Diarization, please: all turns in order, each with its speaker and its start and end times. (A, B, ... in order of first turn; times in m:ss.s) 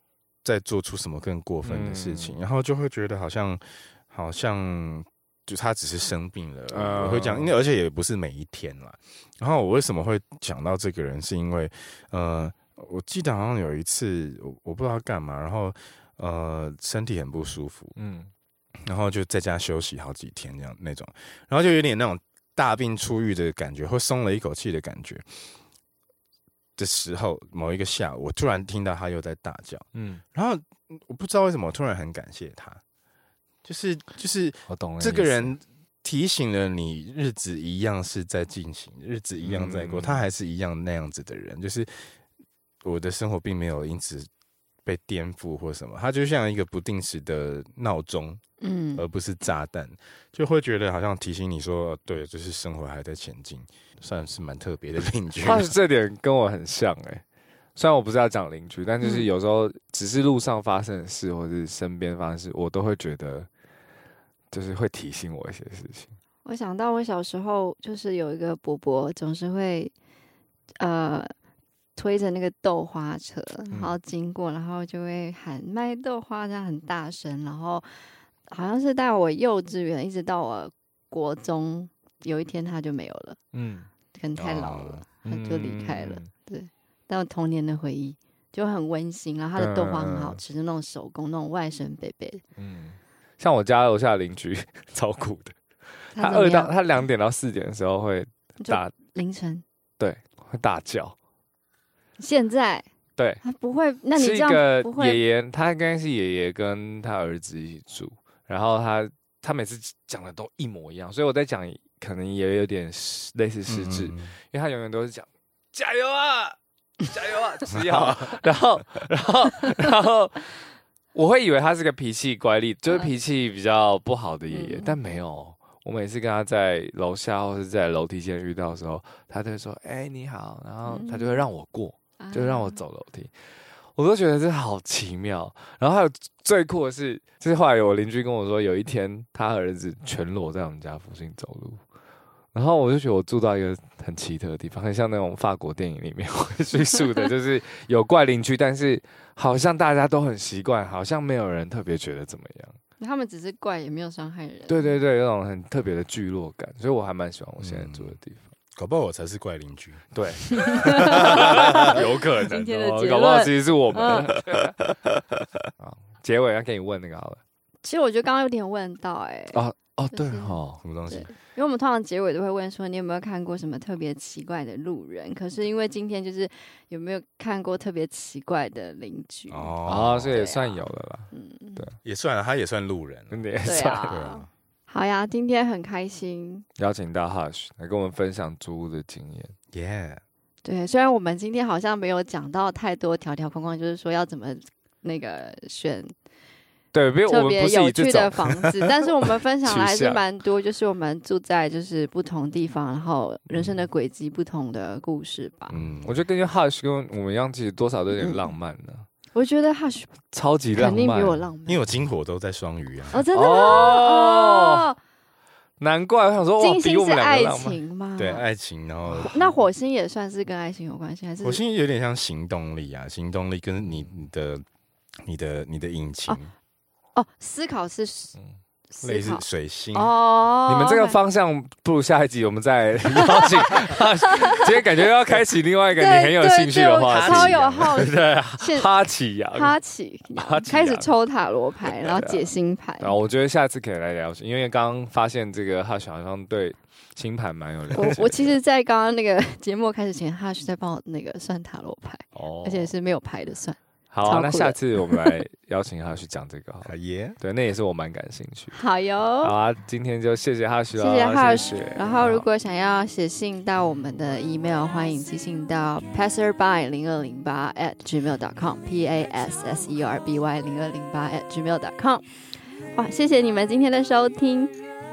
0:00.4-0:17.9 A
0:01.6-0:02.4 B
0:06.7-0:07.5 B
0:18.0-0:18.3 B
0:18.8-0:25.4 A
0:26.8-0:32.8 A
0:29.9-0:30.2 B
0:33.6-0:42.1 A
0:34.7-0:35.5 B
0:39.4-0:40.2 B
0:42.8-0:44.3 A
0:44.8-0:48.4 A
0:48.6-0:49.0 C
0:49.0-0:55.8 A
0:55.4-0:57.2 B
0:57.8-1:03.5 B
0:59.0-0:59.3 C
1:04.5-1:06.1 B
1:06.4-1:09.9 C
1:10.8-1:11.3 C
1:12.0-1:17.9 C
1:18.5-1:23.4 C
1:23.5-1:23.9 B
1:24.1-1:32.4 C
1:24.4-1:25.0 A
1:25.2-1:26.3 B
1:29.6-1:30.4 B
1:32.6-1:38.9 B
1:36.1-1:36.7 C
1:38.6-1:39.6 C
1:40.0-1:41.1 B
1:42.2-1:42.9 C
1:43.4-1:45.2 C
1:44.1-2:00.5 B
1:53.7-1:54.3 A
1:57.7-1:58.4 A
2:01.1-2:13.3 B
2:04.5-2:05.0 C
2:10.9-2:11.4 C
2:12.2-2:12.8 C
2:13.9-2:21.8 B
2:22.5-2:32.8 B
2:33.0-2:34.9 C
2:34.7-2:38.4 B
2:37.6-2:38.2 A
2:38.7-2:41.9 A
2:40.1-2:44.7 B
2:40.5-2:44.3 C
2:45.8-2:47.4 B
2:47.8-2:49.6 C
2:49.5-2:50.8 B
2:50.1-3:01.8 C
2:50.8-2:51.3 A
2:59.5-3:00.3 A
2:59.8-3:01.9 B
3:02.0-3:03.4 A
3:03.3-3:04.2 B
3:03.6-3:06.6 C
3:04.0-3:04.5 A
3:06.8-3:09.5 B
3:09.7-3:10.2 A
3:10.6-3:16.1 C
3:16.9-3:18.5 B
3:17.3-3:25.7 C
3:19.6-3:20.2 B
3:25.7-3:26.2 A
3:25.8-3:29.0 B
3:28.2-3:28.5 C
3:29.3-3:30.1 C
3:30.3-3:31.4 B
3:30.7-3:31.8 C
3:31.6-3:33.2 A
3:33.1-3:35.0 C
3:33.3-3:34.9 B
3:35.8-3:37.8 B
3:36.6-3:38.4 C
3:38.2-3:39.5 A
3:39.2-3:41.6 C
3:41.4-3:44.6 A
3:45.2-3:46.5 A
3:47.1-3:48.4 C
3:48.9-3:51.2 C
3:49.0-3:50.1 A
3:50.7-3:59.7 B
3:53.4-3:53.8 C
3:55.9-3:58.9 C
3:57.1-3:58.0 A
3:59.5-4:03.1 C
4:00.3-4:01.1 B
4:02.0-4:02.5 B
4:03.0-4:08.5 B
4:07.9-4:15.4 C
4:12.3-4:12.9 B
4:14.1-4:18.8 B
4:16.8-4:17.4 A
4:18.7-4:19.5 C
4:19.4-4:22.4 B
4:21.0-4:32.3 C
4:32.9-4:34.7 C